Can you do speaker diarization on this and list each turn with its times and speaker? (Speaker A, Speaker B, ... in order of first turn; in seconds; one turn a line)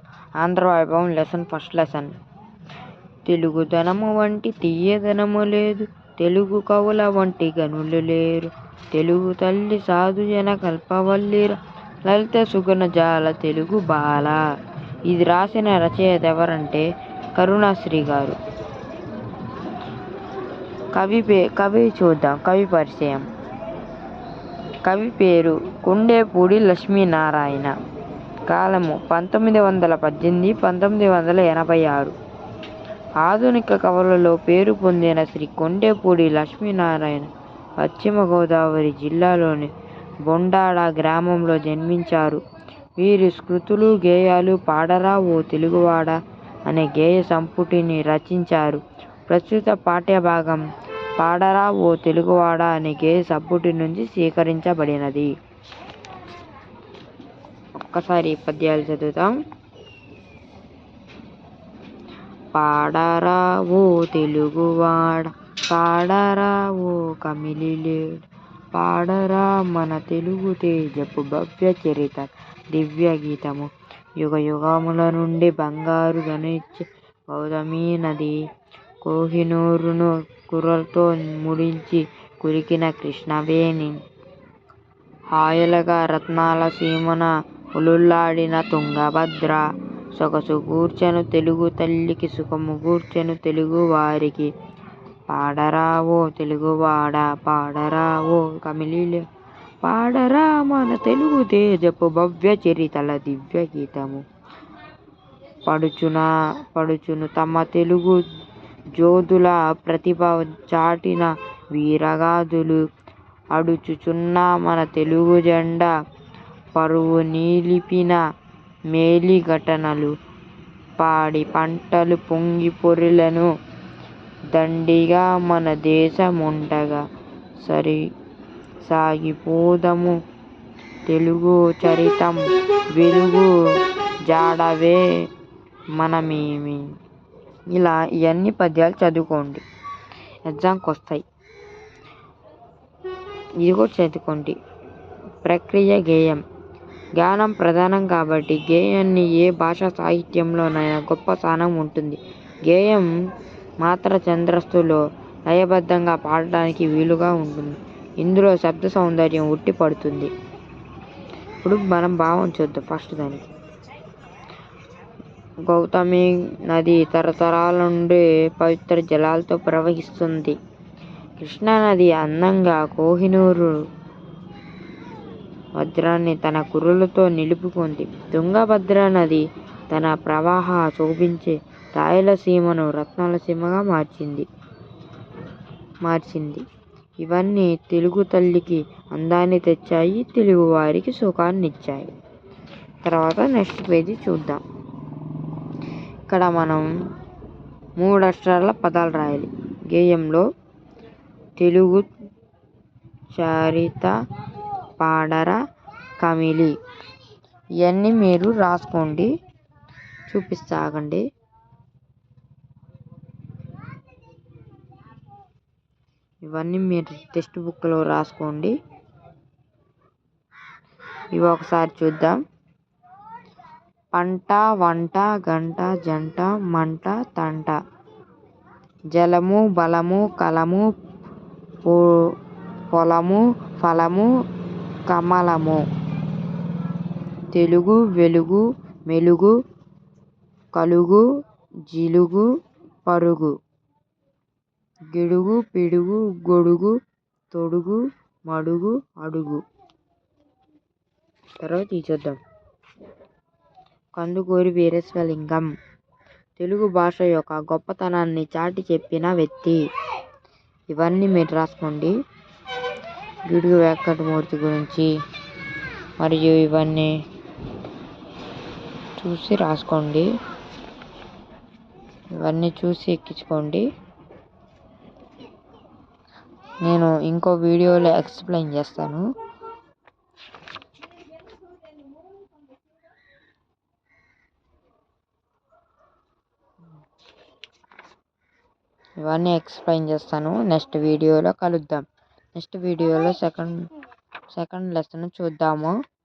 Speaker A: 0.4-2.1
Speaker A: 3.2-14.4
Speaker A: 15.1-18.4
Speaker A: 20.9-23.3
Speaker A: 24.8-27.7
Speaker A: 28.5-32.1
Speaker A: 33.2-37.3
Speaker A: 37.8-39.7
Speaker A: 40.3-42.4
Speaker A: 43.0-46.1
Speaker A: 46.7-50.6
Speaker A: 51.2-55.3
Speaker A: 57.8-59.3
Speaker A: 62.5-68.2
Speaker A: 68.7-78.3
Speaker A: 79.0-84.0
Speaker A: 85.3-89.6
Speaker A: 90.2-94.5
Speaker A: 95.3-99.2
Speaker A: 99.8-104.2
Speaker A: 105.7-108.2
Speaker A: 109.0-112.8
Speaker A: 113.5-115.9
Speaker A: 116.7-118.2
Speaker A: 118.9-120.1
Speaker A: 121.0-123.5
Speaker A: 124.5-127.0
Speaker A: 127.6-128.0
Speaker A: 128.8-130.2
Speaker A: 131.1-132.4
Speaker A: 132.9-133.5
Speaker A: 134.3-135.0
Speaker A: 136.0-136.8
Speaker A: 137.7-139.6
Speaker A: 140.5-141.2
Speaker A: 143.6-144.6
Speaker A: 145.4-146.4
Speaker A: 147.2-153.1
Speaker A: 153.8-160.3
Speaker A: 161.6-163.5
Speaker A: 165.7-170.6
Speaker A: 171.4-173.7
Speaker A: 175.8-184.4
Speaker A: 186.0-186.6
Speaker A: 187.2-192.1
Speaker A: 193.0-194.6
Speaker A: 196.3-196.9
Speaker A: 198.0-200.4
Speaker A: 201.6-202.1
Speaker A: 203.3-204.1
Speaker A: 205.0-205.6
Speaker A: 206.2-206.7
Speaker A: 207.8-209.3
Speaker A: 210.3-211.2
Speaker A: 216.4-218.7
Speaker A: 221.3-222.4
Speaker A: 224.1-227.8
Speaker A: 229.1-230.9
Speaker A: 232.9-234.3
Speaker A: 235.1-235.8
Speaker A: 237.5-239.5
Speaker A: 240.7-241.2
Speaker A: 241.9-242.5
Speaker A: 243.1-243.5
Speaker A: 245.1-246.9
Speaker A: 247.5-249.6
Speaker A: 251.6-252.4
Speaker A: 254.1-255.7
Speaker A: 256.6-259.8
Speaker A: 260.9-262.1
Speaker A: 263.5-265.1
Speaker A: 266.2-267.1
Speaker A: 269.2-270.3
Speaker A: 272.4-273.8
Speaker A: 276.8-279.2
Speaker A: 289.2-292.0
Speaker A: 292.5-293.8
Speaker A: 294.5-295.9